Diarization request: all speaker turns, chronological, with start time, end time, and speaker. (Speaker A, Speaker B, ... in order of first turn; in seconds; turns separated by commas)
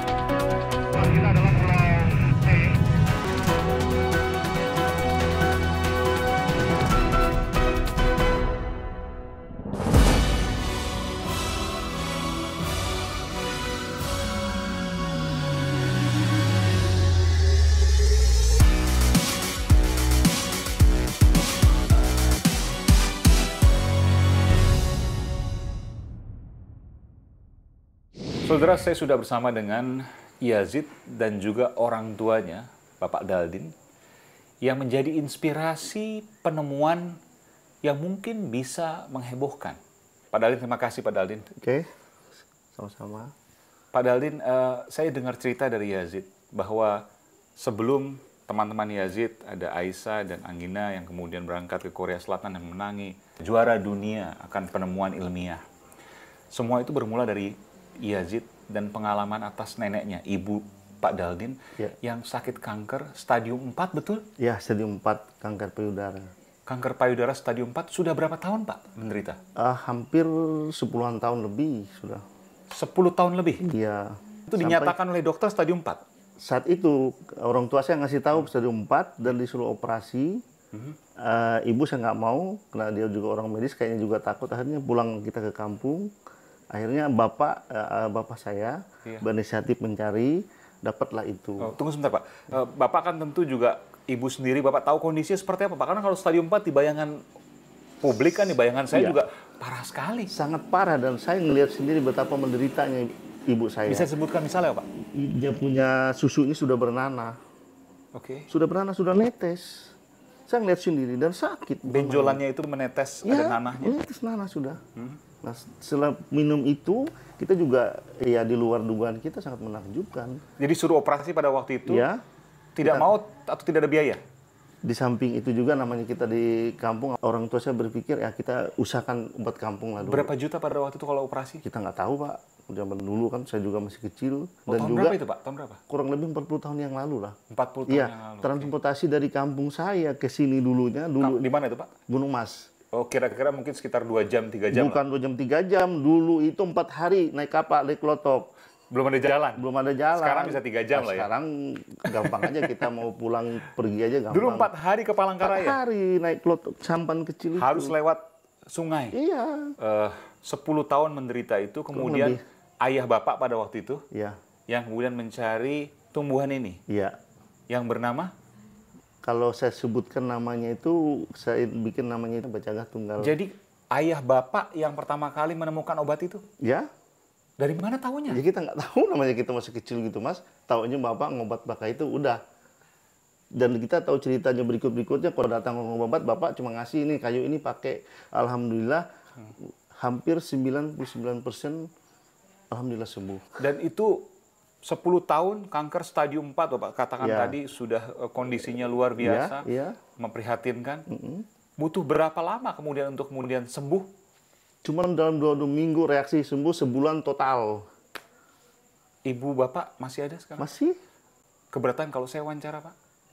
Speaker A: 1.0-2.4, Speaker B: 28.4-33.7, Speaker B: 34.6-37.2, Speaker B: 37.8-39.8, Speaker B: 40.3-41.5, Speaker A: 41.6-41.9, Speaker A: 42.7-43.3, Speaker B: 43.9-55.6, Speaker B: 56.5-64.3, Speaker A: 64.4-66.3, Speaker B: 66.7-69.4, Speaker A: 69.6-72.2, Speaker B: 72.7-73.7, Speaker A: 73.6-75.0, Speaker B: 74.5-76.0, Speaker A: 76.4-80.4, Speaker A: 81.2-86.1, Speaker A: 86.7-91.7, Speaker B: 91.6-97.2, Speaker B: 98.0-100.3, Speaker A: 98.9-99.2, Speaker A: 100.3-104.1, Speaker B: 103.9-104.9, Speaker A: 105.1-107.4, Speaker B: 108.1-108.5, Speaker A: 108.5-109.9, Speaker A: 110.5-112.4, Speaker B: 111.9-114.0, Speaker A: 113.2-114.8, Speaker A: 115.4-120.4, Speaker B: 120.6-122.1, Speaker A: 121.9-122.2, Speaker B: 122.8-124.2, Speaker A: 122.8-123.1, Speaker A: 124.8-130.3, Speaker B: 130.0-131.6, Speaker A: 131.6-135.2, Speaker B: 134.7-135.8, Speaker A: 135.9-141.5, Speaker B: 137.5-138.7, Speaker B: 141.2-141.9, Speaker A: 142.1-142.7, Speaker B: 142.9-145.0, Speaker A: 144.7-148.5, Speaker B: 148.9-149.6, Speaker A: 149.6-154.7, Speaker B: 150.2-151.3, Speaker B: 152.1-152.8, Speaker B: 154.3-155.8, Speaker A: 155.4-157.9, Speaker B: 157.6-159.2, Speaker A: 159.1-159.8, Speaker B: 159.8-164.1, Speaker A: 161.9-162.4, Speaker A: 164.1-164.4, Speaker B: 164.7-166.8, Speaker A: 166.9-167.2, Speaker B: 167.7-168.3, Speaker A: 169.2-173.4, Speaker B: 173.2-176.4, Speaker A: 176.6-176.9, Speaker B: 177.6-178.4, Speaker A: 178.3-182.4, Speaker A: 183.6-189.1, Speaker A: 189.9-191.9, Speaker A: 192.7-193.6, Speaker B: 193.6-194.3, Speaker B: 194.8-201.1, Speaker A: 197.2-197.6, Speaker A: 199.2-200.0, Speaker A: 201.1-201.5, Speaker B: 201.8-204.1, Speaker A: 204.8-207.9, Speaker B: 209.2-210.7, Speaker A: 210.6-211.0, Speaker B: 211.7-212.9